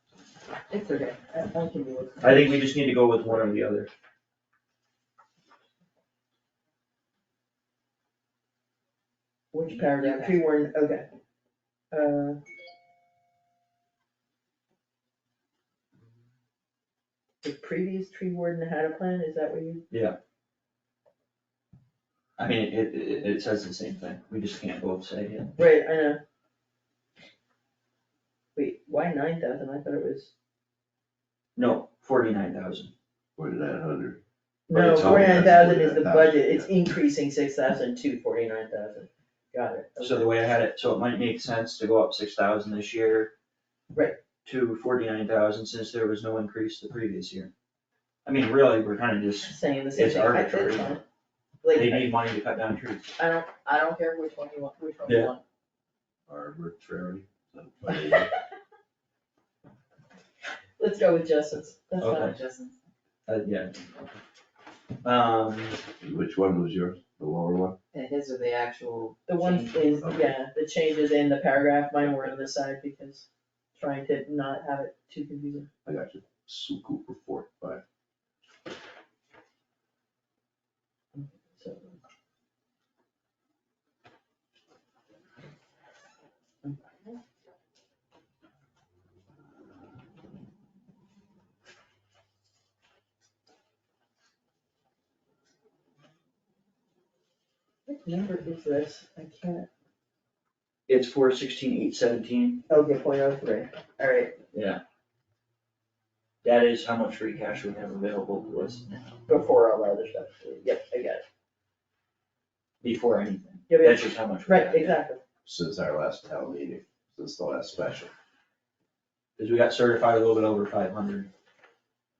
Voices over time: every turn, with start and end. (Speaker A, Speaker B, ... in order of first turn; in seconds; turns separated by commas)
Speaker A: 0.7-2.6, Speaker B: 2.2-3.9, Speaker A: 9.5-11.1, Speaker C: 9.7-10.4, Speaker A: 11.9-12.4, Speaker A: 17.4-19.9, Speaker B: 19.9-20.2, Speaker B: 22.4-25.5, Speaker A: 25.6-26.2, Speaker A: 28.6-30.3, Speaker B: 31.6-32.9, Speaker D: 33.4-36.7, Speaker A: 34.7-40.3, Speaker B: 40.0-43.3, Speaker A: 43.9-44.2, Speaker B: 44.5-47.5, Speaker B: 48.2-51.0, Speaker A: 49.4-51.0, Speaker A: 51.6-52.2, Speaker B: 51.7-53.1, Speaker A: 53.2-55.4, Speaker B: 55.1-55.3, Speaker D: 56.3-58.3, Speaker A: 60.8-62.3, Speaker B: 62.0-62.4, Speaker C: 62.1-62.8, Speaker B: 63.3-63.8, Speaker B: 65.0-65.8, Speaker D: 66.0-67.8, Speaker C: 67.9-70.1, Speaker A: 69.3-75.7, Speaker D: 70.0-70.3, Speaker D: 75.8-77.8, Speaker A: 81.1-81.9, Speaker A: 86.6-87.2, Speaker A: 97.9-99.7, Speaker B: 100.9-102.6, Speaker A: 102.7-104.4, Speaker B: 104.5-104.8, Speaker B: 106.4-109.1, Speaker A: 109.3-111.2, Speaker B: 112.8-115.0, Speaker A: 113.7-115.2, Speaker D: 115.4-118.1, Speaker B: 119.4-121.3